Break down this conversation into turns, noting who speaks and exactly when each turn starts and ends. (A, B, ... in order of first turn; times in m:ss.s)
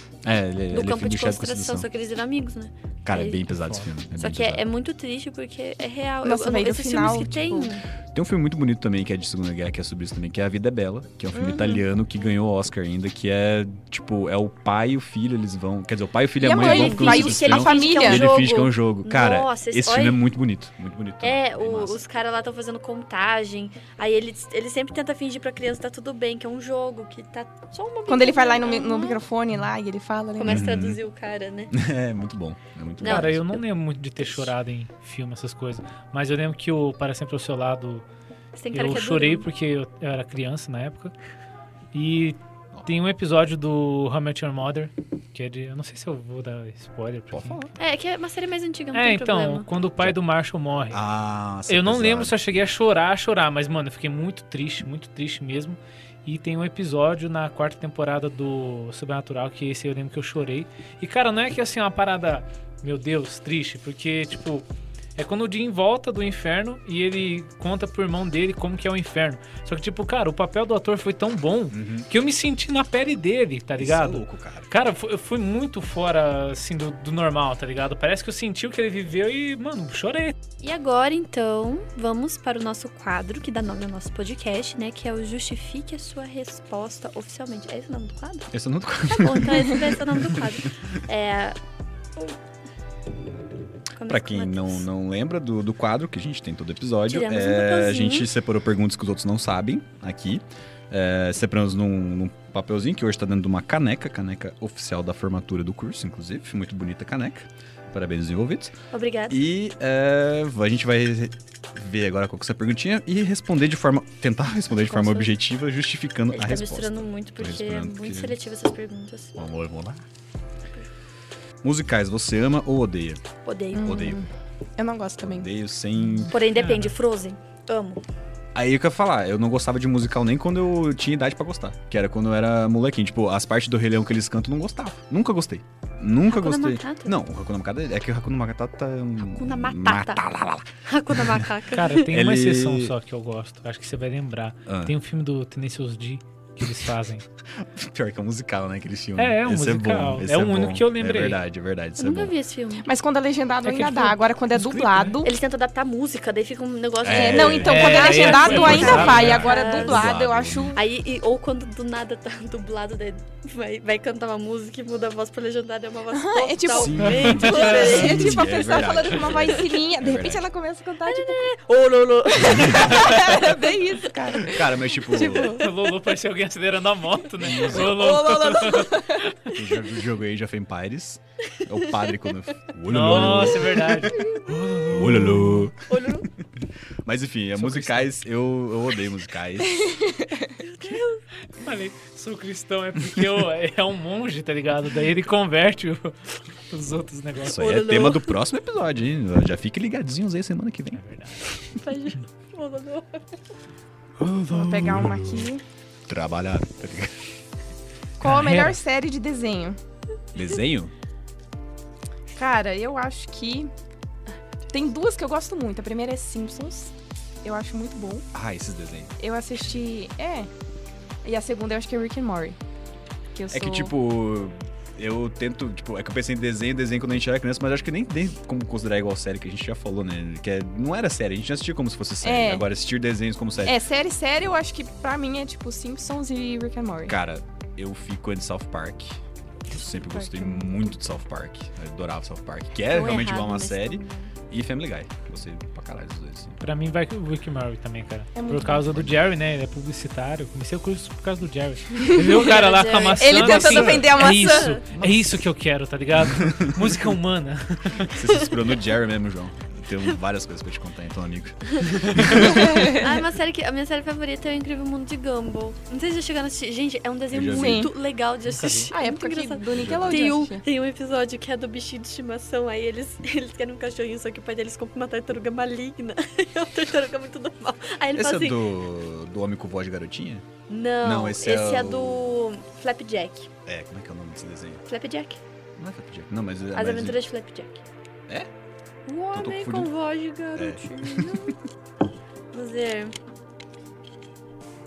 0:00.2-0:01.9 A
0:00.7-0:03.5 B
0:03.0-0:04.6 A
0:03.6-0:03.9 C
0:04.1-0:07.8 B
0:06.2-0:07.8 D
0:08.1-0:22.0 A
0:11.3-0:11.8 D
0:16.4-0:18.3 D
0:16.6-0:20.2 B
0:21.2-0:29.2 B
0:28.1-0:30.7 D
0:30.4-0:31.7 B
0:30.4-0:31.0 A
0:31.7-0:33.6 A
0:33.0-0:33.4 B
0:33.0-0:38.0 C
0:38.5-0:39.5 B
0:38.7-0:41.1 C
0:41.9-0:47.6 C
0:47.3-0:47.7 A
0:47.8-0:49.7 B
0:48.9-0:51.0 C
0:50.9-0:52.6 A
0:51.7-1:04.6 C
1:05.2-1:20.3 C
1:11.7-1:12.1 A
1:13.8-1:14.7 A
1:20.6-1:28.5 B
1:28.5-1:30.5 A
1:29.0-1:31.6 B
1:33.9-1:34.8 B
1:34.1-1:48.7 A
1:37.1-1:38.3 B
1:48.9-1:49.4 B
1:49.3-1:58.4 A
1:54.8-1:55.3 B
1:56.3-1:59.4 B
1:59.4-2:00.0 A
2:01.6-2:03.2 A
2:03.4-2:04.2 B
2:03.7-2:05.5 D
2:03.8-2:04.2 A
2:05.2-2:06.3 A
2:06.3-2:08.0 B
2:06.5-2:06.9 C
2:08.5-2:21.5 A
2:16.3-2:17.1 B
2:19.3-2:20.2 B
2:20.8-2:22.1 B
2:21.7-2:27.2 C
2:22.1-2:22.9 A
2:24.7-2:24.9 A
2:27.5-2:32.3 A
2:29.2-2:31.4 C
2:32.0-2:32.9 B
2:32.8-2:35.3 D
2:33.6-2:35.2 C
2:35.2-2:40.1 B
2:37.0-2:40.8 A
2:37.1-2:40.8 D
2:37.6-2:39.5 C
2:40.7-2:48.7 B
2:46.1-2:51.5 D
2:46.7-2:50.4 A
2:47.0-2:47.9 C
2:51.0-2:53.7 B
2:52.4-2:55.6 D
2:52.5-2:53.0 A
2:54.4-2:55.6 A
2:55.1-2:55.7 B
2:55.4-2:59.6 C
2:57.4-2:57.9 A
2:57.5-2:59.2 D
2:59.5-3:06.1 A
3:01.6-3:02.3 B
3:02.9-3:05.7 C
3:05.8-3:06.3 B
3:06.6-3:10.0 A
3:07.6-3:08.1 C
3:09.7-3:10.5 D
3:10.6-3:11.2 B
3:11.6-3:17.6 C
3:17.4-3:21.0 A
3:17.5-3:18.4 B
3:20.9-3:21.5 C
3:21.8-3:23.2 B
3:24.2-3:25.5 A
3:24.5-3:25.6 D
3:26.1-3:27.3 A
3:28.2-3:29.8 D
3:28.2-3:28.8 C
3:30.3-3:30.9 A
3:32.3-3:33.7 D
3:34.7-3:38.2 D
3:38.3-3:39.1 A
3:39.2-3:40.5 D
3:41.2-3:42.6 D
3:43.3-3:43.9 D
3:43.5-3:53.8 A
3:52.2-3:52.6 D
3:53.6-3:57.1 D
3:57.1-4:06.6 A
3:59.8-4:00.9 D
4:02.9-4:04.3 B
4:06.6-4:18.2 C
4:08.4-4:08.8 D
4:08.6-4:09.3 A
4:12.0-4:12.4 D
4:12.2-4:14.8 B
4:13.2-4:14.7 D
4:13.7-4:14.2 A
4:14.9-4:15.5 A
4:16.2-4:17.0 A
4:18.0-4:23.0 A
4:21.7-4:38.7 B
4:22.3-4:23.2 D
4:27.3-4:27.9 A
4:27.5-4:27.9 D
4:28.5-4:28.9 C
4:28.9-4:30.6 D
4:29.7-4:30.3 A
4:38.1-4:40.4 A
4:40.7-4:43.5 B
4:41.0-4:42.3 A
4:43.6-4:44.8 A
4:44.8-4:45.4 B
4:45.8-4:47.2 A
4:46.7-4:47.8 B
4:49.0-4:51.6 B
4:49.3-4:49.9 A
4:50.6-4:51.5 A
4:52.5-4:53.1 B